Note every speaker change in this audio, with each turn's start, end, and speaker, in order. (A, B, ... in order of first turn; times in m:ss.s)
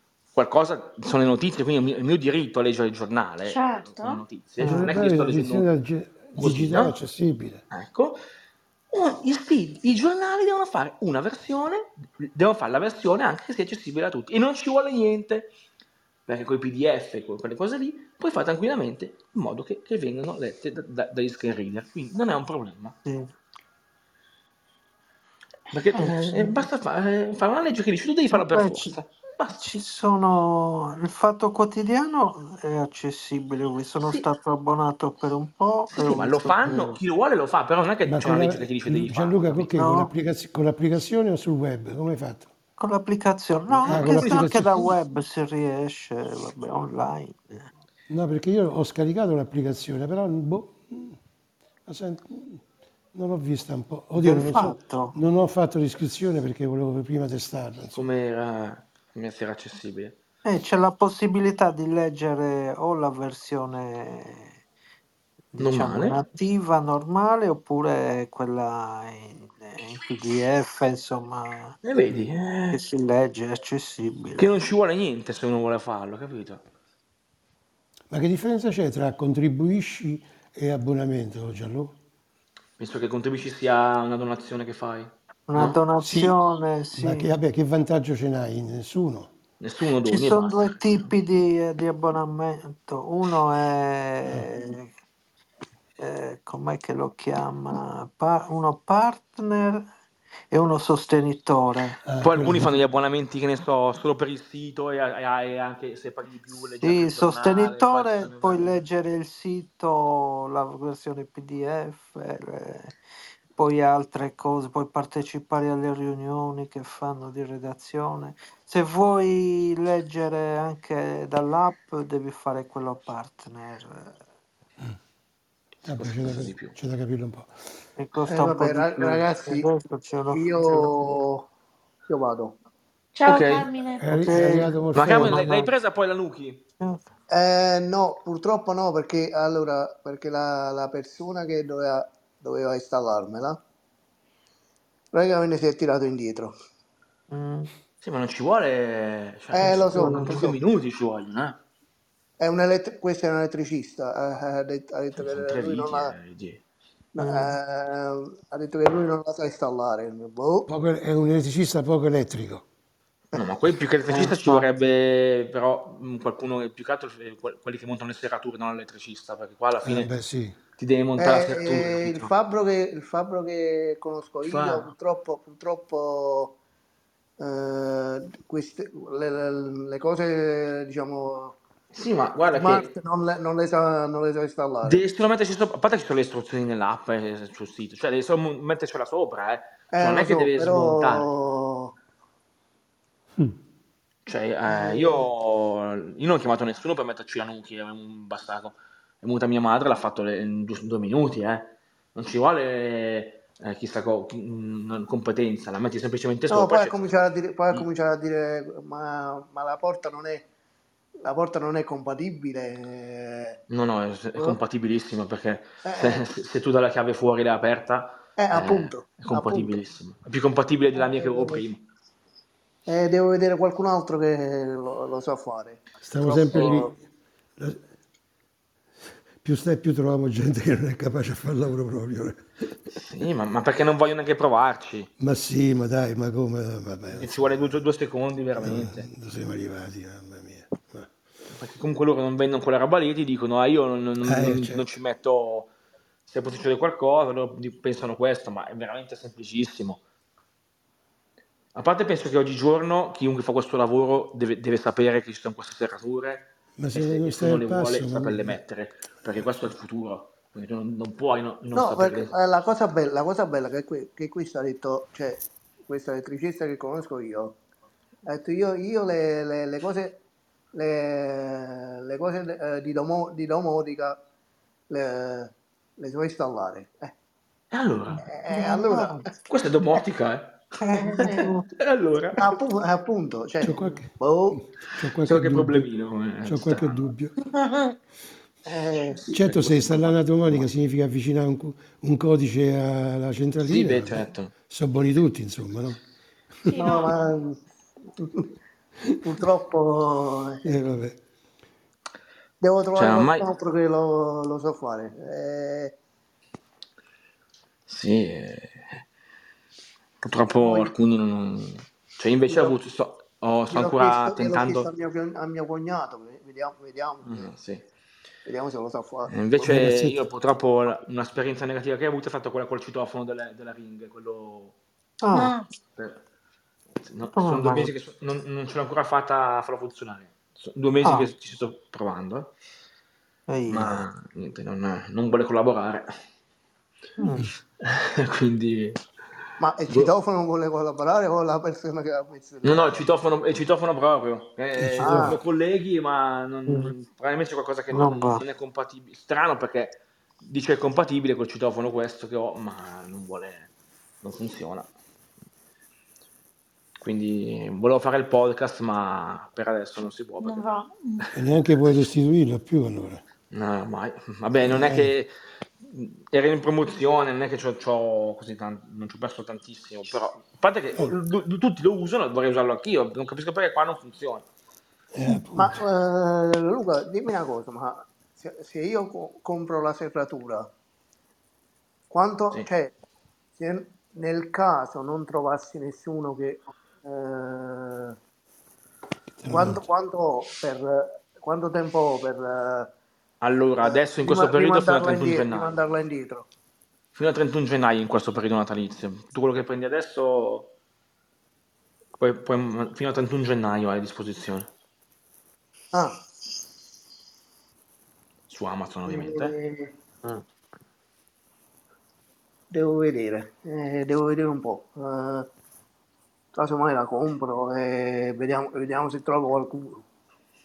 0:00.3-0:05.7 A
0:03.4-0:04.2 B
0:04.6-0:05.0 C
0:04.6-0:07.6 D
0:06.3-0:07.0 A
0:07.7-0:08.2 A
0:08.9-0:15.5 A
0:16.3-0:23.0 A
0:23.0-0:23.3 C
0:25.7-0:29.6 A
0:25.9-0:26.6 C
0:28.3-0:28.9 C
0:29.5-0:37.0 C
0:35.9-0:39.7 A
0:38.0-0:42.5 D
0:39.8-0:40.1 C
0:42.8-0:47.7 C
0:43.7-0:44.9 A
0:43.8-0:44.8 D
0:48.1-0:51.2 D
0:51.8-0:52.6 D
0:53.1-0:58.0 D
0:54.2-0:55.2 C
0:57.9-1:00.1 A
1:00.4-1:04.6 C
1:05.5-1:11.8 C
1:05.6-1:06.2 A
1:11.8-1:12.8 A
1:12.7-1:14.5 C
1:14.4-1:16.6 A
1:18.1-1:21.9 D
1:22.8-1:25.8 A
1:25.5-1:27.3 C
1:26.0-1:26.3 D
1:27.0-1:29.3 D
1:29.6-1:31.1 A
1:30.1-1:34.9 C
1:36.0-1:39.9 C
1:40.5-1:42.0 C
1:42.0-1:42.7 D
1:42.2-1:48.8 A
1:46.8-1:53.0 C
1:53.6-2:04.2 C
2:05.8-2:07.5 D
2:05.8-2:06.7 A
2:08.0-2:11.1 C
2:08.3-2:09.7 E
2:10.3-2:11.5 E
2:12.1-2:12.6 E
2:13.1-2:14.3 B
2:13.2-2:13.6 A
2:14.0-2:15.4 D
2:14.2-2:15.7 C
2:14.9-2:16.6 A
2:17.3-2:23.6 E
2:25.1-2:26.5 E
2:27.3-2:27.7 C
2:28.0-2:31.6 A
2:29.5-2:30.6 E
2:29.6-2:30.4 C
2:32.4-2:36.1 E
2:35.2-2:36.6 A
2:37.1-2:40.7 E
2:37.2-2:37.6 C
2:40.7-2:42.6 D
2:43.3-2:50.1 A
2:44.1-2:44.6 C
2:49.8-2:50.5 D
2:50.8-2:52.3 A
2:51.2-2:56.6 E
2:54.4-2:54.9 A
2:57.4-3:01.6 E
3:01.9-3:02.9 A
3:02.5-3:05.0 E
3:04.8-3:11.3 A
3:09.9-3:11.9 E
3:14.2-3:27.0 A
3:14.7-3:15.2 E
3:26.5-3:30.4 E
3:31.2-3:33.6 E
3:33.7-3:41.8 A
3:35.8-3:36.2 E
3:38.4-3:39.8 E
3:41.0-3:41.6 E
3:42.8-3:46.9 E
3:46.0-3:46.9 D
3:46.2-3:46.9 A
3:49.4-3:52.4 D
3:53.0-3:55.1 A
3:55.2-3:57.7 D
3:57.1-3:59.1 A
3:58.6-4:01.1 D
4:01.5-4:05.7 A
4:04.2-4:04.8 D
4:06.3-4:10.0 A
4:11.7-4:22.3 A
4:16.8-4:18.6 D
4:21.7-4:27.6 E
4:28.2-4:30.2 E
4:30.7-4:34.2 E
4:34.9-4:37.1 E
4:37.7-4:38.2 A
4:38.2-4:39.4 E
4:38.5-4:39.2 C
4:39.5-4:40.6 A
4:40.8-4:41.7 C
4:40.9-4:41.5 E
4:41.2-4:42.6 A
4:42.4-4:44.6 E
4:43.6-4:45.9 D
4:45.2-4:47.0 A
4:46.4-4:47.3 D
4:47.4-4:47.9 B
4:48.6-4:49.3 E
4:49.2-4:50.7 A
4:49.3-4:56.0 D
4:53.7-4:54.5 A
4:56.7-4:57.1 B
4:56.7-4:57.6 E
4:58.2-4:58.5 E
4:59.2-5:00.6 E
5:00.6-5:01.2 D
5:02.6-5:05.9 E
5:03.0-5:03.5 A
5:07.9-5:09.0 A
5:10.2-5:14.9 A
5:10.6-5:10.9 E
5:12.5-5:12.8 E
5:13.7-5:17.5 E
5:17.2-5:17.8 A
5:18.4-5:19.5 E
5:19.3-5:24.7 A
5:19.6-5:20.2 D
5:25.2-5:25.5 C
5:25.3-5:25.7 B
5:27.0-5:32.5 A
5:27.3-5:27.9 C
5:31.0-5:31.3 C
5:33.5-5:34.0 C
5:33.7-5:36.1 A
5:37.2-5:37.5 C
5:37.8-5:39.0 A
5:39.6-5:43.0 E
5:42.6-5:53.7 A
5:44.8-5:45.4 D
5:45.0-5:45.4 E
5:46.7-5:46.9 C
5:47.9-5:48.4 C
5:54.2-5:54.9 A
5:57.0-6:00.6 A
6:00.4-6:01.2 B
6:01.3-6:03.2 D
6:03.5-6:05.3 A
6:04.6-6:05.1 D
6:05.8-6:14.4 A
6:15.1-6:15.8 D
6:15.5-6:20.7 E
6:22.1-6:22.9 E
6:23.6-6:28.2 E
6:29.4-6:29.8 D
6:29.5-6:32.9 E
6:33.4-6:35.8 A
6:33.8-6:36.4 E
6:37.2-6:40.7 A
6:42.2-6:44.7 A
6:45.9-6:46.2 E
6:48.5-6:49.5 A
6:49.1-6:49.9 E
6:52.7-6:55.5 E
6:56.5-7:00.0 E